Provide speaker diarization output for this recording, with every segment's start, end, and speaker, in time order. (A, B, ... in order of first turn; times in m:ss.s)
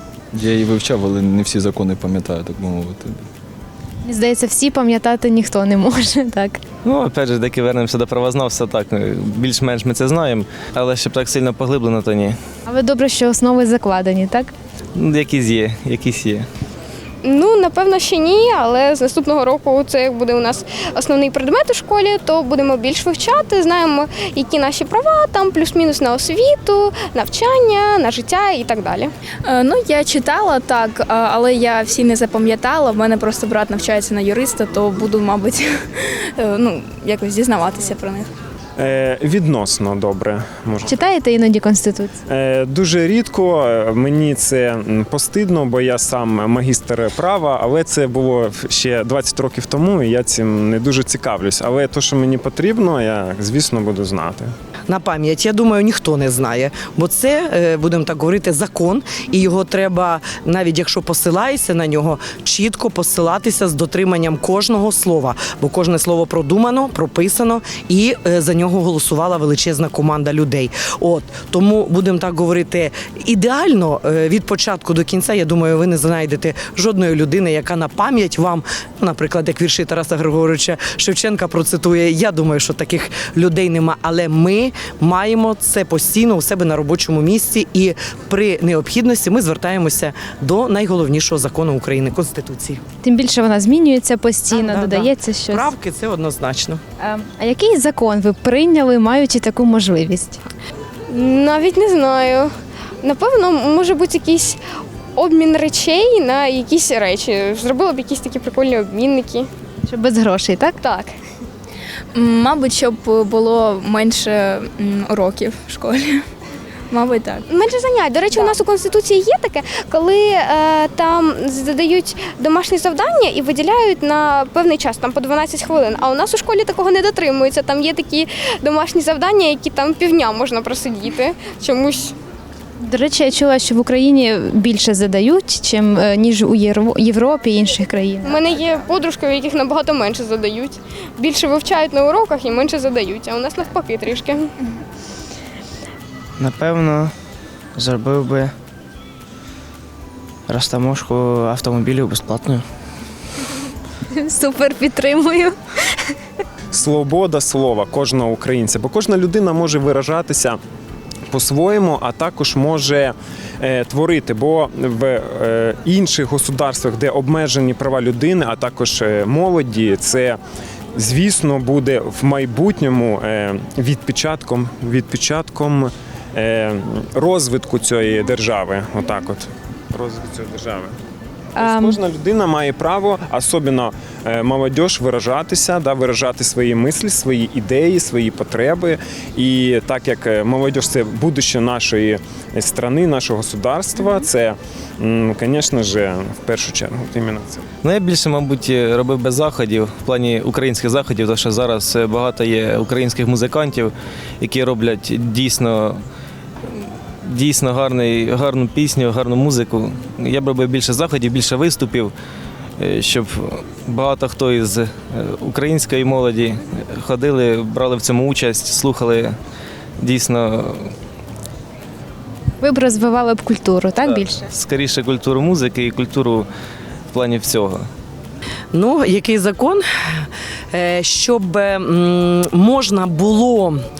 0:00.3-0:03.2 A
0:04.0-0:06.6 B
0:06.8-0:12.4 C
0:12.7-0:14.5 B
0:15.0-0:16.5 C
0:17.2-0:29.1 D
0:29.5-0:35.6 E
0:36.4-0:38.3 E
0:38.8-0:40.9 F
0:40.8-0:42.2 B
0:42.2-0:54.5 F
0:54.9-1:32.8 G
1:33.0-1:35.7 B
1:34.5-1:36.8 G
1:37.0-1:40.4 B
1:41.1-1:42.5 D
1:43.0-1:44.6 D
1:45.2-1:49.5 D
1:49.9-1:50.8 B
1:50.8-1:51.1 D
1:52.2-1:56.1 E
1:56.9-1:57.4 E
1:57.5-2:12.1 D
2:12.8-2:18.4 B
2:18.2-2:24.4 D
2:26.4-2:27.1 H
2:27.8-2:28.5 H
2:30.5-2:32.6 H
2:34.1-2:36.1 B
2:36.7-2:40.6 F
2:41.3-2:50.4 F
2:51.0-3:00.9 F
3:01.6-3:02.0 B
3:01.6-3:17.6 F
3:17.8-3:26.0 C
3:26.7-3:32.1 C
3:32.8-3:39.4 C
3:40.0-3:40.9 C
3:42.6-3:44.5 B
3:44.1-3:46.5 C
3:47.1-3:47.9 C
3:48.7-3:49.8 G
3:50.7-3:53.8 G